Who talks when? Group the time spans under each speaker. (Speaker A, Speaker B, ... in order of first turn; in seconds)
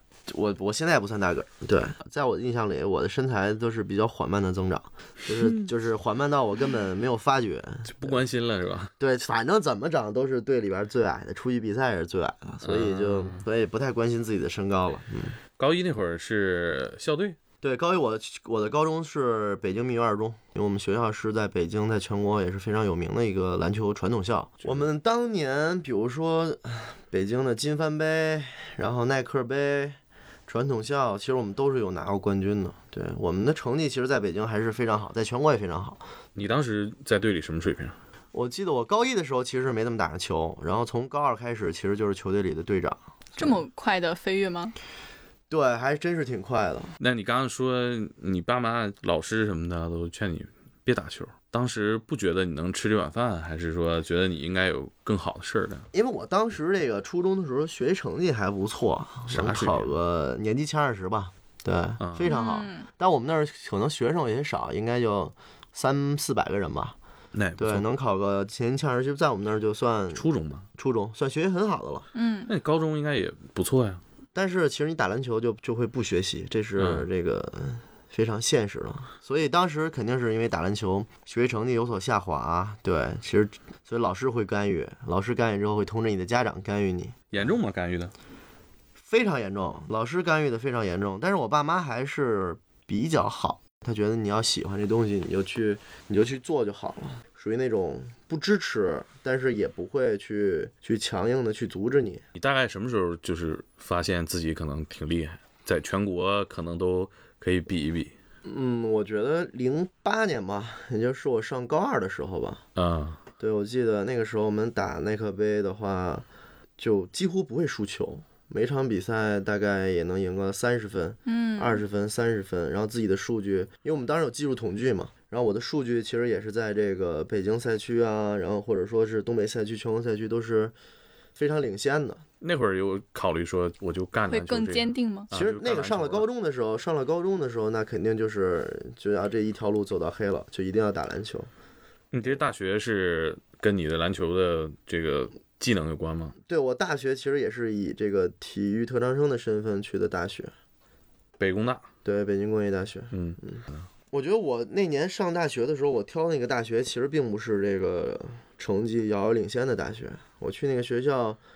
Speaker A: 0.3-8.2, 9.0-15.4, 17.6-36.0, 38.3-43.6, 45.5-46.9, 55.9-67.0, 67.6-70.2, 70.8-72.1, 74.3-87.3, 89.0-102.2, 108.4-112.6, 113.4-116.2, 116.8-130.7, 131.3-132.2, 135.3-141.5, 146.5-150.5, 152.0-161.4
Speaker B: 5.3-5.7, 7.8-8.9, 12.6-13.4, 15.6-17.4, 36.4-38.0, 47.0-55.9, 59.3-59.9, 62.0-62.3, 67.3-67.9, 70.1-70.7, 72.5-74.0, 76.8-77.1, 87.3-88.1, 102.3-108.1, 112.7-113.2, 132.4-136.3, 142.1-146.3, 151.4-151.9, 153.1-153.8
Speaker C: 43.4-44.7, 62.3-62.9, 72.1-72.5, 121.3-121.8, 134.3-135.3